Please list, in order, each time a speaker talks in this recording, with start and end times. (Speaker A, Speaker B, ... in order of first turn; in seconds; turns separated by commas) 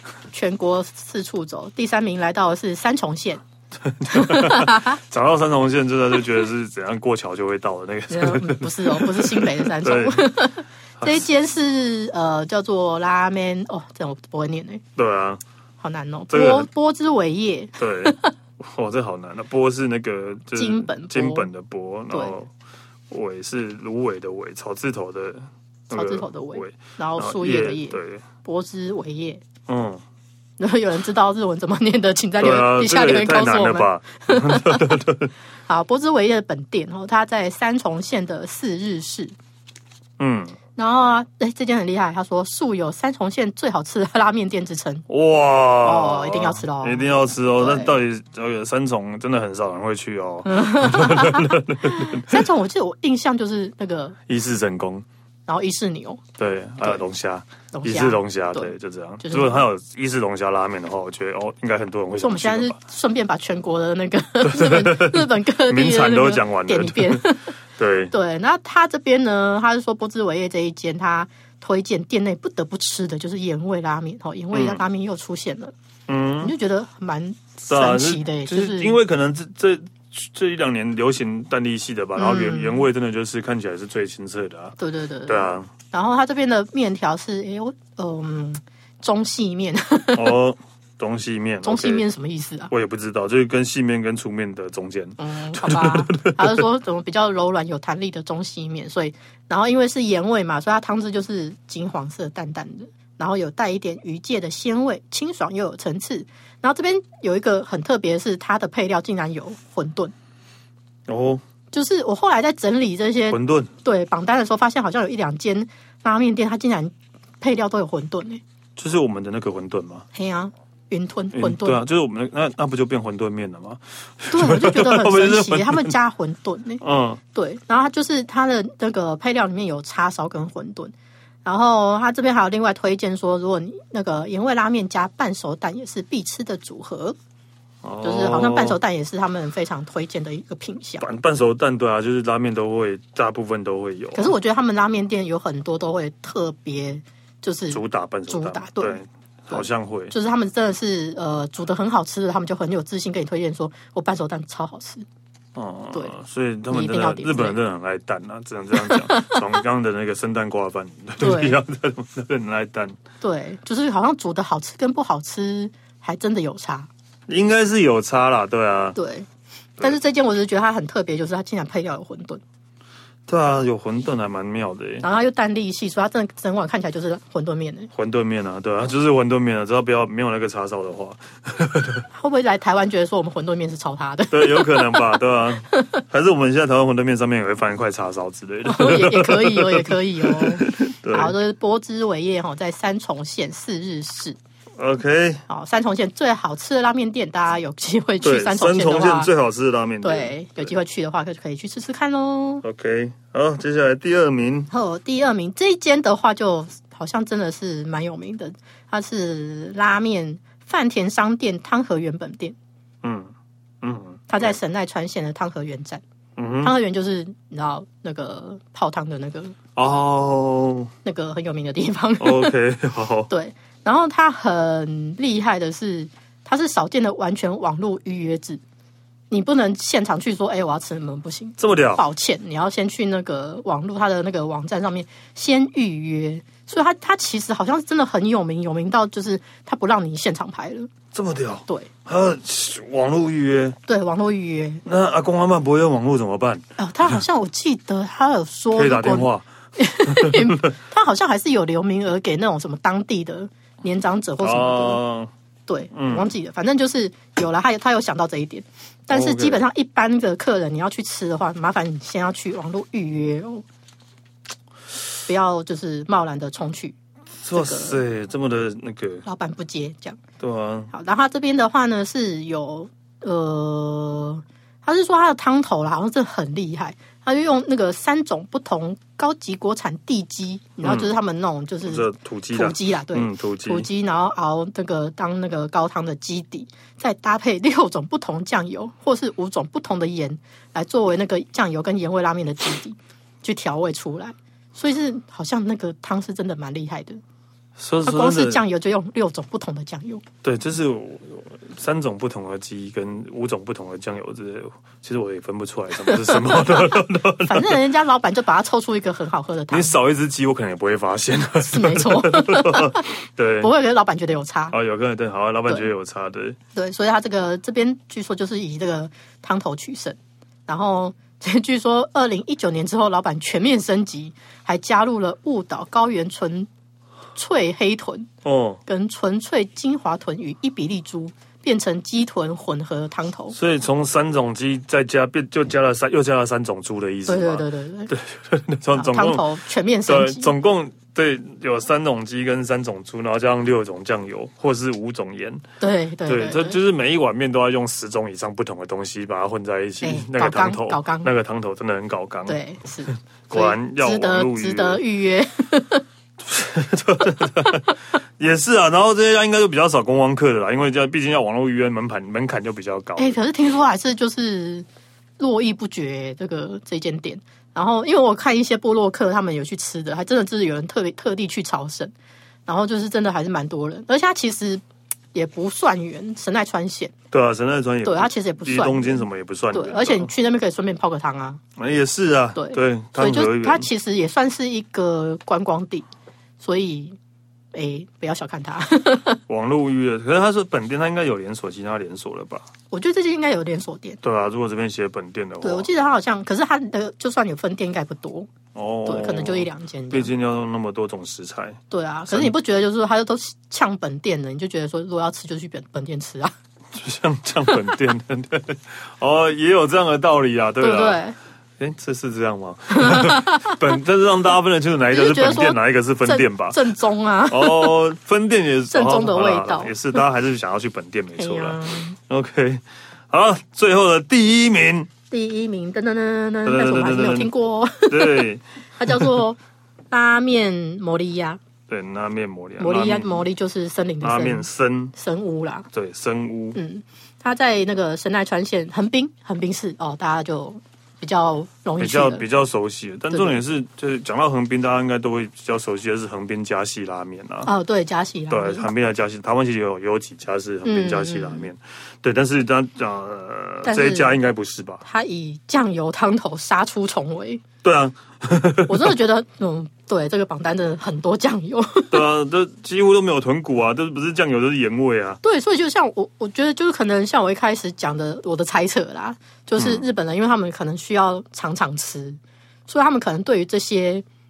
Speaker A: 0.3-3.4, Speaker B: 3.8-10.3, Speaker A: 4.1-5.0, Speaker A: 8.1-14.8, Speaker B: 11.0-11.2, Speaker B: 14.9-15.4, Speaker A: 15.8-18.3, Speaker B: 16.3-16.7, Speaker B: 17.8-22.5, Speaker A: 20.5-21.5, Speaker A: 22.1-22.4, Speaker B: 23.1-28.2, Speaker A: 25.9-29.4, Speaker B: 29.7-30.0, Speaker A: 30.6-35.0, Speaker B: 32.4-35.3, Speaker A: 35.7-39.3, Speaker B: 40.2-40.6, Speaker A: 40.8-45.0, Speaker B: 45.1-52.5, Speaker A: 45.8-47.9, Speaker A: 50.4-54.1, Speaker B: 54.3-55.0, Speaker A: 55.5-56.2, Speaker B: 56.4-62.8, Speaker A: 57.7-59.6, Speaker A: 62.2-67.5, Speaker B: 64.4-67.2, Speaker B: 67.8-68.1, Speaker A: 68.1-75.7, Speaker B: 74.5-74.8, Speaker B: 76.1-76.5, Speaker A: 76.4-79.0, Speaker B: 77.7-84.7, Speaker A: 82.2-82.9, Speaker A: 84.8-90.3, Speaker B: 85.2-85.7, Speaker B: 90.1-92.0, Speaker A: 91.6-92.7, Speaker B: 92.7-96.6, Speaker A: 95.2-110.1, Speaker B: 111.1-111.4, Speaker A: 111.7-118.4, Speaker B: 113.3-113.7, Speaker B: 118.8-120.0, Speaker A: 120.1-121.8, Speaker B: 121.3-125.9, Speaker A: 124.3-126.8, Speaker B: 126.8-127.2, Speaker A: 127.3-130.9, Speaker A: 131.4-137.2, Speaker B: 137.8-138.8, Speaker A: 138.0-141.1, Speaker B: 141.0-144.3, Speaker A: 144.1-155.0, Speaker B: 147.7-150.1, Speaker B: 155.5-163.0, Speaker A: 156.7-157.6, Speaker A: 158.7-159.6, Speaker A: 161.2-161.6, Speaker A: 163.2-166.9, Speaker B: 167.3-169.0, Speaker A: 168.9-169.3, Speaker A: 169.8-172.4, Speaker B: 173.3-175.0, Speaker A: 175.0-177.9, Speaker B: 177.9-182.1, Speaker A: 182.1-185.2, Speaker B: 184.3-191.3, Speaker A: 185.7-186.0, Speaker A: 188.6-194.4, Speaker B: 194.8-195.4, Speaker A: 195.5-199.3, Speaker B: 198.2-200.7, Speaker A: 200.0-202.6, Speaker B: 202.6-204.7, Speaker A: 204.7-212.6, Speaker B: 213.0-213.3, Speaker B: 213.8-214.5, Speaker A: 214.3-216.0, Speaker B: 216.4-216.7, Speaker A: 216.6-219.5, Speaker B: 219.8-220.9, Speaker A: 221.0-222.6, Speaker B: 222.2-223.3, Speaker A: 223.3-228.6, Speaker A: 229.3-240.9, Speaker B: 231.6-232.0, Speaker B: 241.1-243.8, Speaker A: 243.9-244.8, Speaker B: 244.8-246.6, Speaker A: 246.8-255.0, Speaker B: 248.7-249.4, Speaker B: 250.1-250.7, Speaker B: 254.4-255.3, Speaker A: 255.7-263.6, Speaker B: 255.9-256.3, Speaker B: 259.1-259.6, Speaker A: 265.3-267.0, Speaker B: 267.4-269.2, Speaker A: 267.5-268.0, Speaker A: 269.2-270.2, Speaker B: 270.4-270.9, Speaker A: 270.9-297.2, Speaker B: 280.8-281.1, Speaker B: 281.8-283.9, Speaker B: 297.8-298.6, Speaker A: 298.0-300.2, Speaker B: 300.4-307.8, Speaker A: 306.0-309.9, Speaker B: 309.7-313.7, Speaker A: 311.6-313.1, Speaker A: 313.6-314.7, Speaker B: 314.7-316.6, Speaker A: 316.7-326.7, Speaker A: 327.4-328.3, Speaker B: 328.4-328.8, Speaker A: 328.9-333.5, Speaker B: 333.5-339.5, Speaker A: 337.3-338.1, Speaker A: 338.9-340.5, Speaker B: 340.1-345.6, Speaker A: 345.8-346.8, Speaker B: 346.3-352.6, Speaker A: 350.0-351.3, Speaker A: 352.5-356.0, Speaker B: 353.5-355.0, Speaker B: 356.4-363.4, Speaker A: 363.2-364.9, Speaker A: 365.4-372.1, Speaker A: 372.7-374.8, Speaker A: 375.3-377.1, Speaker B: 377.3-380.3, Speaker A: 378.0-381.6, Speaker B: 381.8-383.9, Speaker A: 382.6-386.0, Speaker A: 386.6-387.2, Speaker A: 387.7-389.4, Speaker B: 389.5-392.7, Speaker A: 392.9-394.2, Speaker B: 394.2-395.9, Speaker A: 395.6-398.5, Speaker B: 398.7-402.5, Speaker A: 399.1-400.3, Speaker A: 401.9-406.5, Speaker B: 406.9-411.2, Speaker A: 407.6-407.9, Speaker A: 410.8-411.4, Speaker B: 411.8-416.8, Speaker A: 412.9-413.8, Speaker A: 415.1-418.0, Speaker B: 417.5-425.1, Speaker A: 418.9-420.2, Speaker A: 421.4-422.2, Speaker A: 425.3-428.5, Speaker B: 426.6-427.5, Speaker B: 428.1-429.4, Speaker A: 429.0-429.6, Speaker A: 430.1-431.6, Speaker B: 431.9-433.4, Speaker A: 432.8-435.9, Speaker B: 434.2-435.1, Speaker B: 435.9-436.8, Speaker A: 436.7-442.4, Speaker B: 442.0-447.7, Speaker A: 443.3-443.6, Speaker A: 447.6-448.9, Speaker B: 448.5-455.0, Speaker A: 450.8-451.7, Speaker A: 453.8-454.4, Speaker A: 455.0-457.6, Speaker B: 457.8-459.1, Speaker A: 458.9-462.3, Speaker B: 462.1-465.4, Speaker A: 465.4-474.2, Speaker B: 469.8-470.1